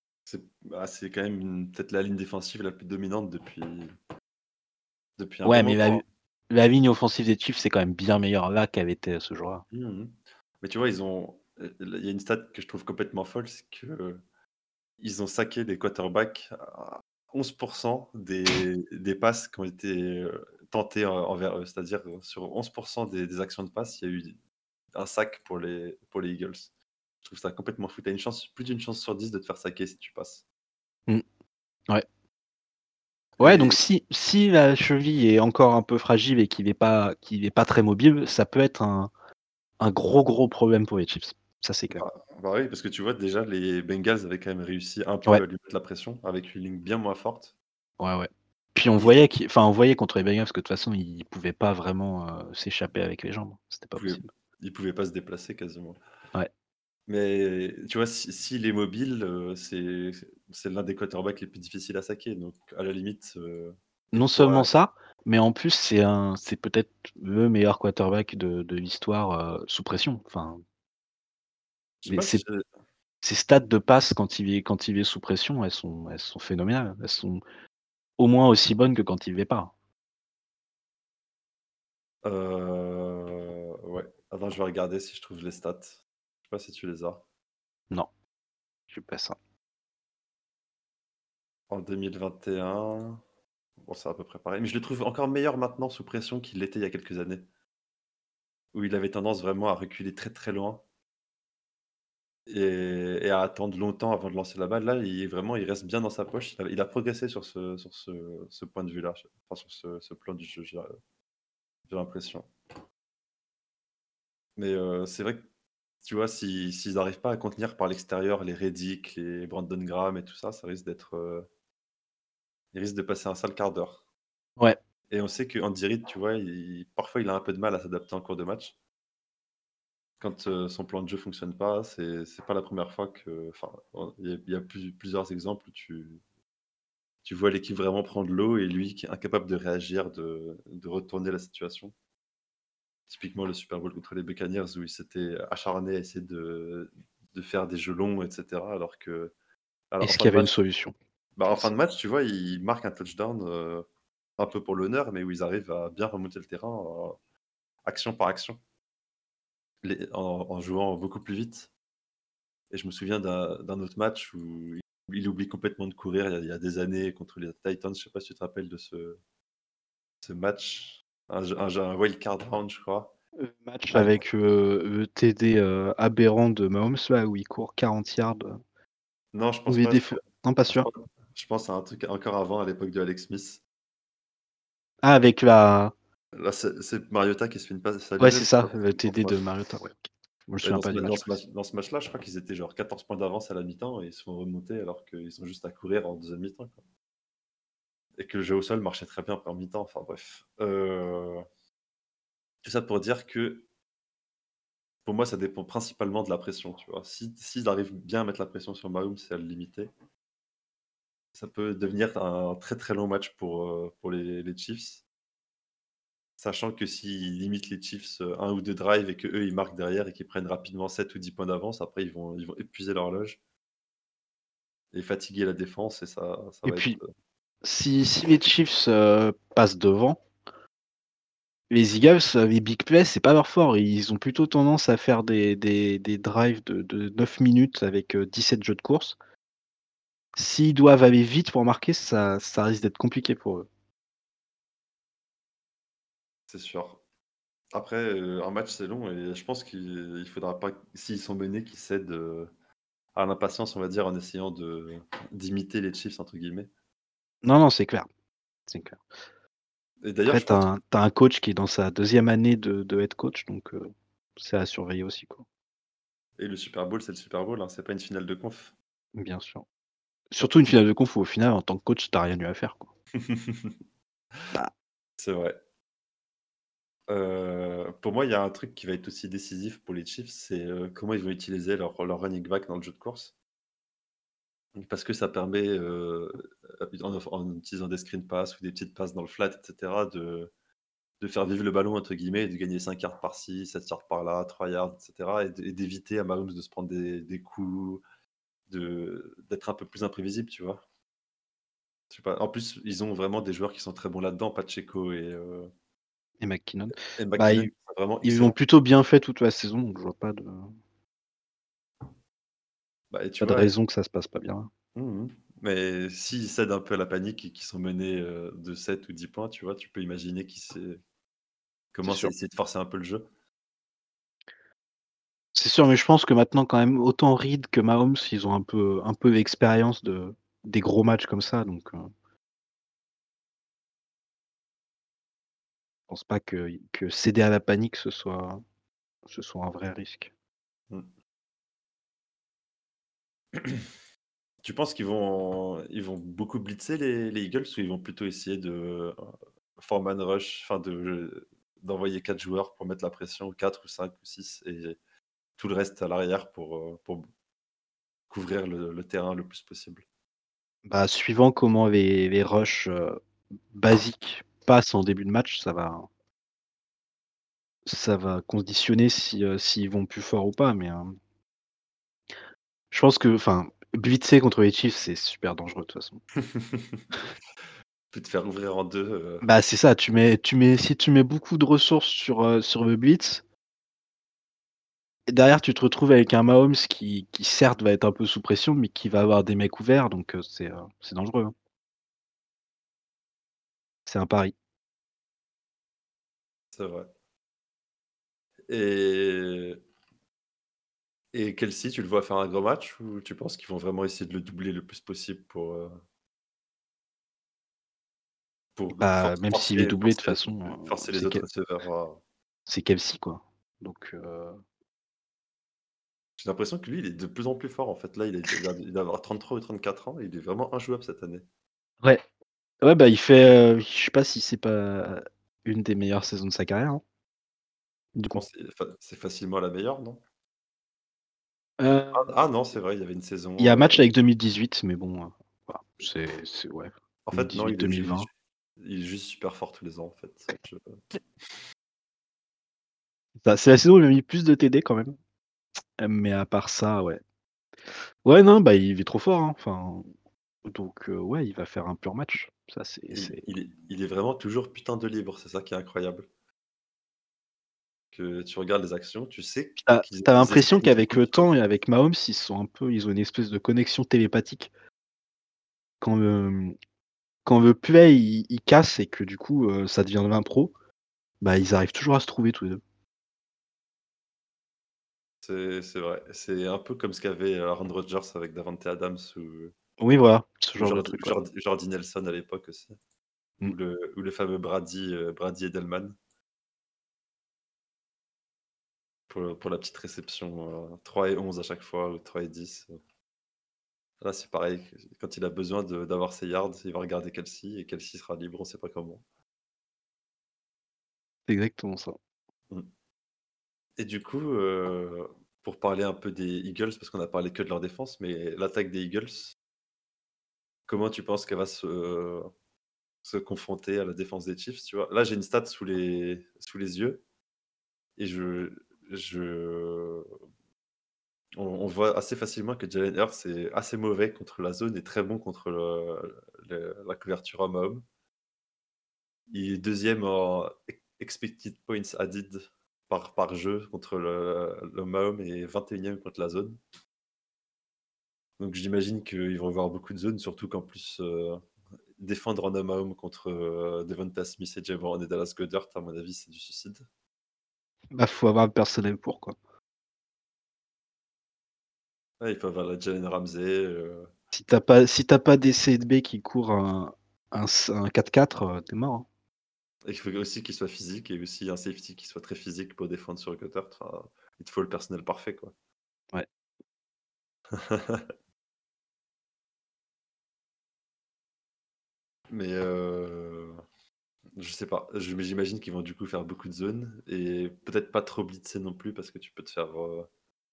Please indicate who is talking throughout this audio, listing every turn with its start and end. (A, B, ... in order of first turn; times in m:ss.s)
0:00.3-0:03.9 A
0:05.2-0:06.0 A
0:05.4-0:09.6 B
0:09.7-0:14.2 A
0:15.0-0:24.4 A
0:24.9-0:26.7 A
0:27.2-0:30.4 A
0:33.4-0:33.8 A
0:33.4-0:39.1 B
0:39.8-0:42.0 B
0:41.9-0:47.5 A
0:48.0-0:54.3 B
0:53.9-0:56.0 A
0:57.1-1:04.7 A
1:04.1-1:10.6 B
1:12.0-1:12.6 A
1:12.1-1:12.4 B
1:13.2-1:17.4 B
1:18.2-1:19.7 B
1:22.2-1:27.2 A
1:28.9-1:29.4 B
1:31.7-1:33.2 A
1:33.8-1:37.4 A
1:38.7-1:40.8 A
1:42.5-1:50.9 A
1:51.9-1:52.5 A
1:54.6-1:55.4 A
1:56.0-2:01.5 A
2:02.7-2:04.0 A
2:05.1-2:08.7 A
2:10.2-2:16.2 A
2:17.2-2:21.9 A
2:23.1-2:29.3 A
2:29.9-2:30.5 A
2:30.0-2:30.9 B
2:31.4-2:33.8 A
2:34.4-2:37.2 A
2:37.8-2:38.6 A
2:39.8-2:41.7 A
2:42.7-2:49.2 A
2:50.2-2:53.1 A
2:53.4-2:58.6 B
2:53.9-2:54.2 A
2:59.3-3:03.6 A
2:59.7-3:00.9 B
3:05.0-3:05.9 B
3:06.4-3:09.4 A
3:08.2-3:11.4 B
3:10.6-3:16.8 A
3:18.2-3:21.4 A
3:22.6-3:23.6 A
3:25.0-3:29.9 A
3:31.3-3:35.0 A
3:36.4-3:43.4 A
3:44.9-3:47.1 A
3:46.6-3:47.0 B
3:47.6-3:50.2 B
3:51.7-3:59.2 B
4:00.4-4:03.7 B
4:06.5-4:07.0 A
4:07.7-4:12.5 A
4:13.1-4:16.7 A
4:17.4-4:18.1 B
4:18.7-4:19.0 B
4:20.0-4:20.7 A
4:20.3-4:25.4 B
4:26.4-4:28.7 A
4:29.1-4:29.6 B
4:30.3-4:32.9 B
4:33.1-4:33.8 A
4:35.2-4:35.6 A
4:37.1-4:43.3 A
4:44.7-4:50.5 A
4:51.2-4:58.0 A
4:58.7-5:00.8 A
5:02.1-5:05.7 A
5:06.4-5:07.7 B
5:07.0-5:08.6 A
5:08.2-5:10.7 B
5:13.1-5:13.7 A
5:13.4-5:14.7 B
5:14.9-5:21.0 A
5:21.9-5:23.2 A
5:22.0-5:22.3 B
5:25.6-5:32.1 B
5:36.1-5:38.6 B
5:39.2-5:40.3 B
5:43.6-5:43.8 A
5:44.6-5:55.0 A
5:55.6-5:57.3 A
5:58.3-6:00.0 A
6:00.8-6:03.2 B
6:03.7-6:06.1 B
6:07.9-6:11.2 B
6:12.9-6:16.2 B
6:16.4-6:17.1 A
6:18.1-6:19.4 A
6:19.4-6:23.4 B
6:25.3-6:31.5 B
6:34.1-6:34.5 B
6:36.7-6:37.1 A
6:38.7-6:39.8 A
6:41.3-6:46.0 A
6:48.8-6:52.2 A
6:48.9-6:51.4 B
6:52.7-6:54.6 B
6:56.4-7:01.4 A
7:02.8-7:07.0 B
7:08.1-7:08.4 B
7:08.3-7:10.2 A
7:11.8-7:12.2 B
7:12.1-7:14.0 A
7:13.6-7:18.3 B
7:17.2-7:21.0 A
7:23.4-7:25.2 B
7:26.0-7:27.2 B
7:28.2-7:30.1 B
7:30.6-7:33.4 B
7:33.1-7:36.3 A
7:38.1-7:41.4 A
7:39.8-7:44.7 B
7:46.0-7:46.7 B
7:47.4-7:50.7 B
7:51.4-7:52.8 B
7:55.4-7:59.7 A
8:00.0-8:01.4 B
8:00.8-8:03.0 A
8:03.6-8:06.2 A
8:09.3-8:13.0 A
8:14.2-8:19.2 A
8:21.5-8:22.2 B
8:24.0-8:29.6 A
8:30.9-8:32.5 A
8:33.2-8:37.2 A
8:38.2-8:40.3 A
8:41.6-8:48.0 A
8:49.5-8:56.8 A
8:58.6-9:01.6 A
9:02.2-9:07.1 A
9:08.1-9:09.6 B
9:12.4-9:14.3 A
9:14.5-9:19.3 B
9:20.1-9:25.7 A
9:27.7-9:28.2 A
9:32.5-9:33.8 A
9:34.6-9:40.3 A